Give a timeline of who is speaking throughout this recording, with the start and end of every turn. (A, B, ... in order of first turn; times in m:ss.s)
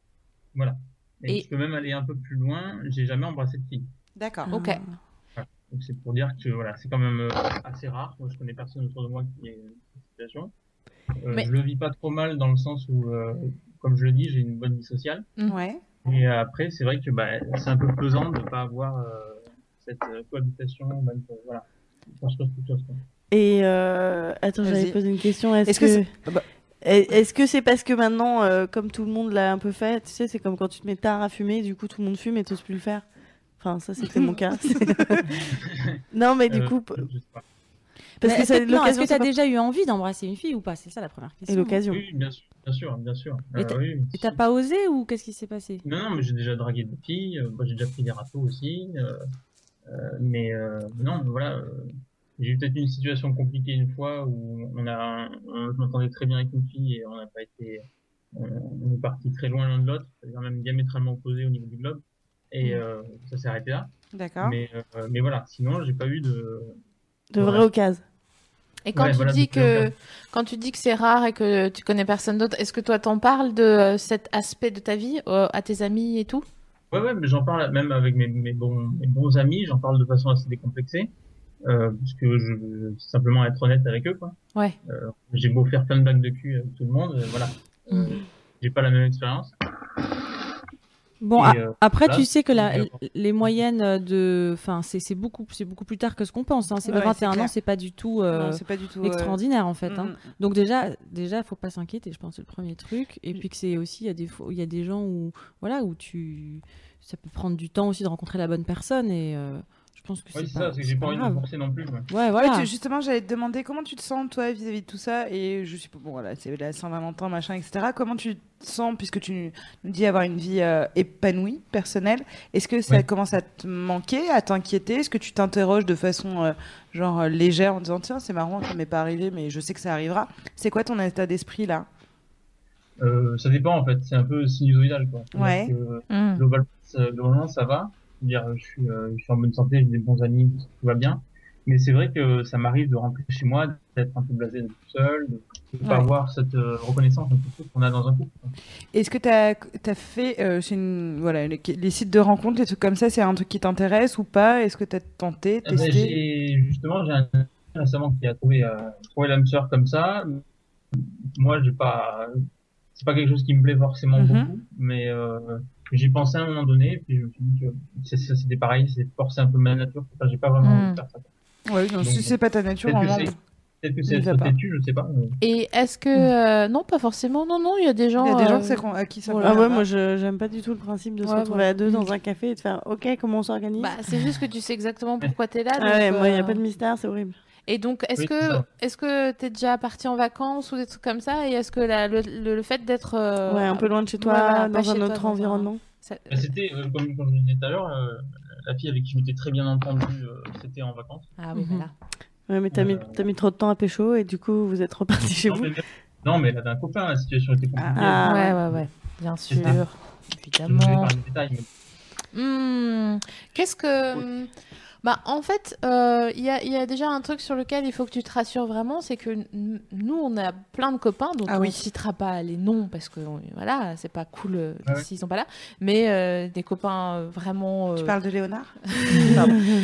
0:00.5-0:03.9 A
0:04.2-0:04.5 B
0:04.5-0:04.8 C
0:05.3-0:10.5 A
0:11.2-0:15.3 A
0:15.5-0:15.8 B
0:16.0-0:23.0 A
0:23.3-0:26.1 D
0:24.6-0:25.0 B
0:25.6-0:26.4 B
0:26.8-0:33.0 D
0:33.6-0:35.4 D
0:34.1-0:35.2 B
0:35.4-0:37.4 A
0:36.1-0:37.0 D
0:38.2-0:39.3 D
0:38.2-0:41.8 E
0:41.5-0:42.0 D
0:41.9-0:44.4 A
0:43.6-0:45.8 E
0:45.8-0:49.2 A
0:49.8-1:06.8 A
1:04.1-1:04.6 B
1:07.3-1:08.0 D
1:07.4-1:07.7 A
1:08.8-1:16.4 C
1:08.9-1:09.9 A
1:16.9-1:21.1 A
1:21.6-1:29.5 A
1:27.9-1:28.2 E
1:31.2-1:51.4 E
1:31.3-1:33.5 A
1:36.8-1:37.5 B
1:38.3-1:40.2 B
1:50.3-1:52.1 A
1:52.1-1:52.7 E
1:52.4-2:11.9 B
2:13.0-2:28.5 A
2:15.3-2:15.7 B
2:16.1-2:16.4 C
2:25.8-2:26.1 B
2:28.9-2:36.2 B
2:35.6-2:51.3 A
2:44.1-2:44.5 B
2:50.6-2:51.0 C
2:51.6-2:53.3 B
2:52.0-2:55.4 A
2:54.1-2:54.5 B
2:55.4-2:59.6 C
2:58.2-2:59.8 B
2:59.4-3:03.9 D
3:01.2-3:02.1 C
3:03.8-3:06.6 C
3:05.8-3:07.3 D
3:07.7-3:16.5 C
3:08.2-3:08.6 A
3:13.5-3:15.8 D
3:16.3-3:21.3 A
3:21.4-3:21.9 C
3:21.5-3:21.9 E
3:22.5-3:25.8 D
3:22.7-3:23.3 A
3:25.2-3:28.3 A
3:27.8-3:28.2 B
3:27.9-3:28.6 D
3:28.2-3:31.1 C
3:29.5-3:29.8 A
3:30.6-3:31.7 A
3:32.3-3:34.5 C
3:35.0-3:48.2 C
3:41.5-3:41.8 B
3:48.0-3:49.7 B
3:48.9-3:49.5 C